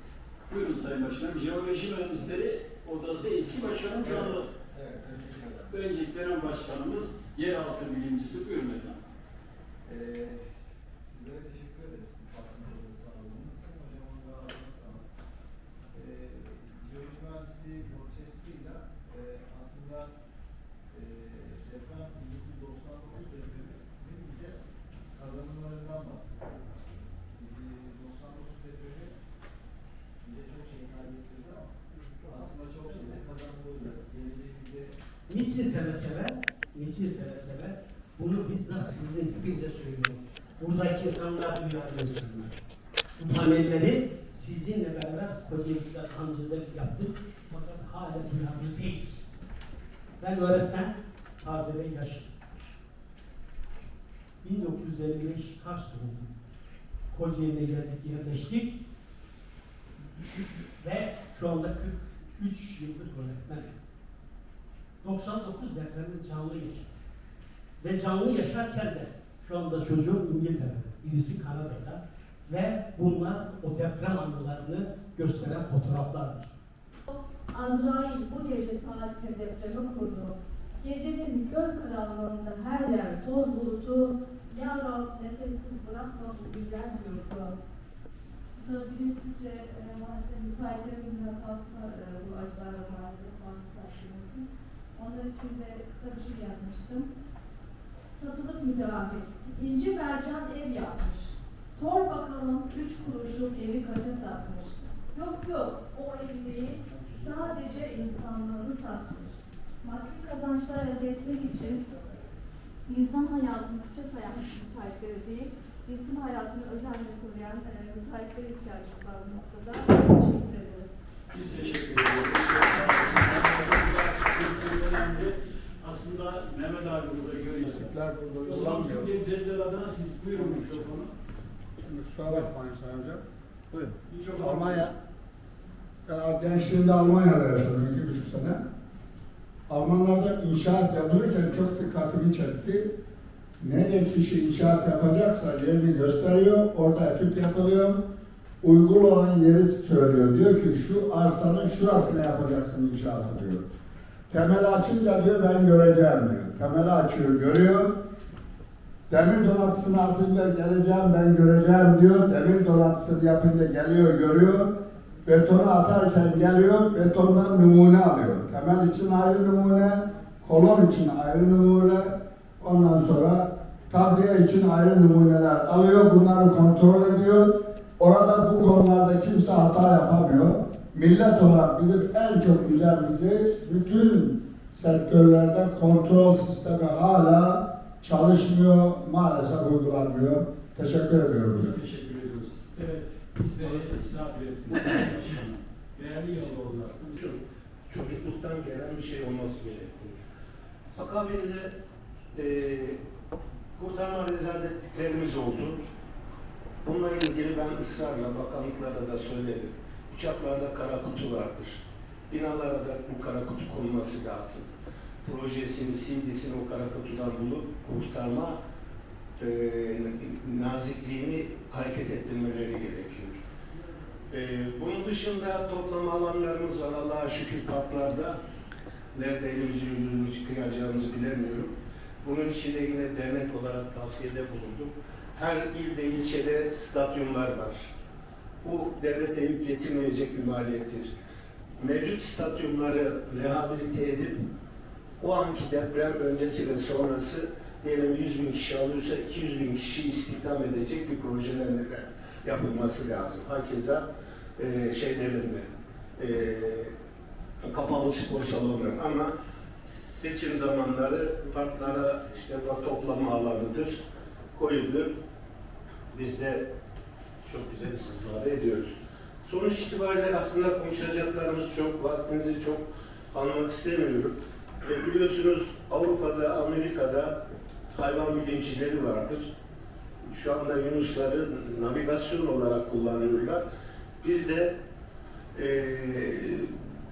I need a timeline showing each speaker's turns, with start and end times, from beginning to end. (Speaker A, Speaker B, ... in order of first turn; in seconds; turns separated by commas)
Speaker A: 0.5-4.5, Speaker B: 4.0-5.7, Speaker A: 5.7-9.0, Speaker B: 9.8-10.4, Speaker B: 11.1-15.1, Speaker B: 15.9-20.1, Speaker B: 20.9-24.6, Speaker B: 25.1-29.2, Speaker B: 30.2-34.9, Speaker C: 35.3-42.6, Speaker C: 43.2-49.3, Speaker C: 50.2-52.3, Speaker C: 54.4-56.3, Speaker C: 57.1-58.8, Speaker C: 60.8-63.7, Speaker C: 65.0-66.9, Speaker C: 67.8-76.5, Speaker D: 77.1-87.6, Speaker D: 88.6-97.1, Speaker D: 98.2-111.9, Speaker D: 112.9-120.9, Speaker A: 121.3-127.9, Speaker E: 127.6-129.1, Speaker A: 128.4-131.1, Speaker E: 130.3-130.9, Speaker E: 131.8-134.9, Speaker A: 134.1-134.9, Speaker E: 136.1-138.6, Speaker E: 139.7-142.9, Speaker E: 143.6-148.0, Speaker E: 148.6-153.7, Speaker E: 154.3-157.9, Speaker E: 159.1-164.7, Speaker E: 165.2-191.8, Speaker A: 191.6-197.2, Speaker F: 196.5-200.3, Speaker F: 200.9-201.8, Speaker F: 202.3-203.0, Speaker F: 203.8-205.9, Speaker F: 206.8-214.7, Speaker F: 215.2-218.6, Speaker F: 219.4-223.4, Speaker F: 224.3-228.4, Speaker F: 229.1-237.9, Speaker F: 238.6-241.1, Speaker F: 241.8-244.4, Speaker F: 245.2-254.1, Speaker F: 254.6-256.9, Speaker F: 257.6-259.3, Speaker F: 259.8-264.0, Speaker F: 264.6-265.1, Speaker F: 266.1-266.6, Speaker F: 267.4-277.4, Speaker F: 277.9-279.5, Speaker F: 280.3-283.6, Speaker F: 284.2-284.7, Speaker F: 285.5-286.7